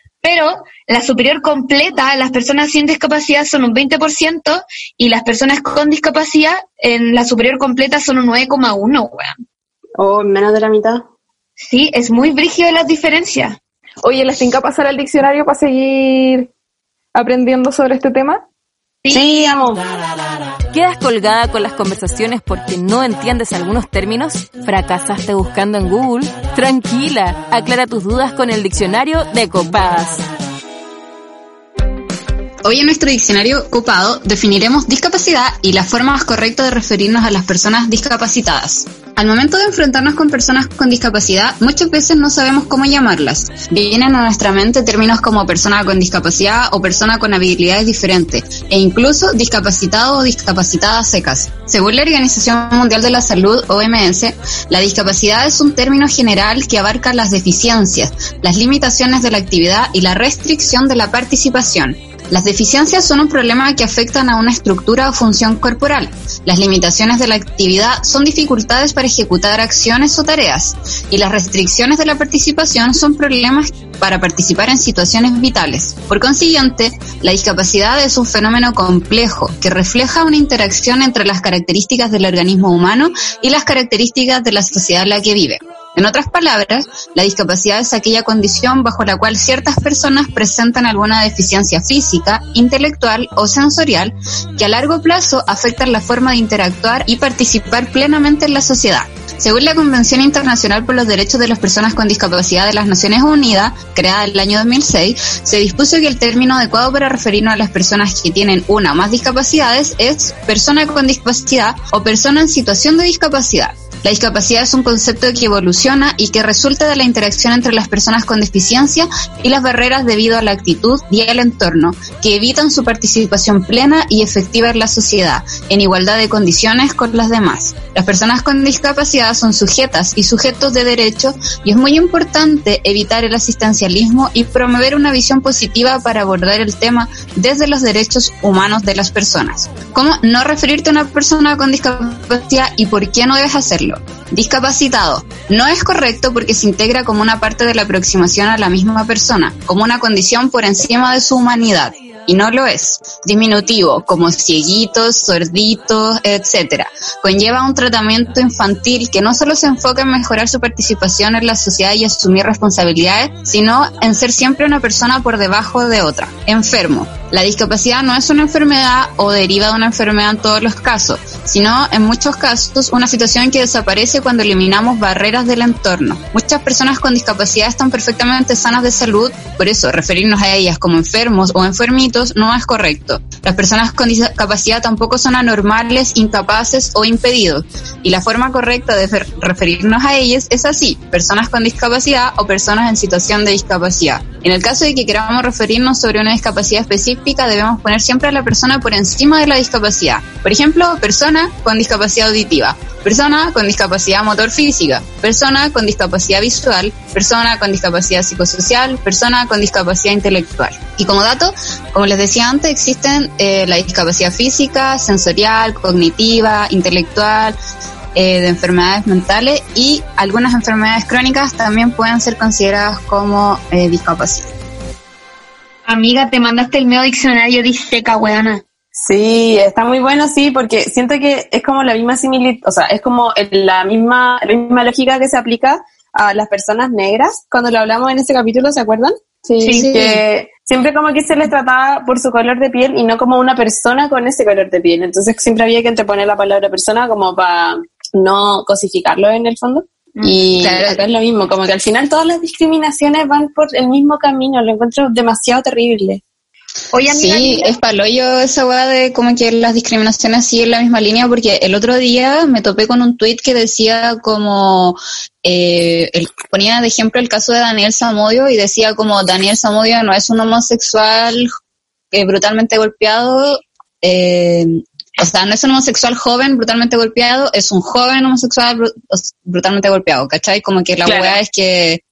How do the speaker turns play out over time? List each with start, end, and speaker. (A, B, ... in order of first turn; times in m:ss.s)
0:00.2-0:09.3 A
0:10.0-0:11.0 B
0:11.6-0:13.6 A
0:14.0-0:16.5 C
0:17.1-0:18.4 C
0:19.1-0:19.8 B
0:20.7-0:30.2 D
0:32.6-3:37.6 E
3:38.1-3:44.5 E
3:45.8-3:48.6 A
3:49.0-4:16.2 B
3:59.6-4:00.0 A
4:10.6-4:11.0 E
4:16.9-4:17.7 A
4:17.1-4:31.5 E
4:32.1-4:42.0 E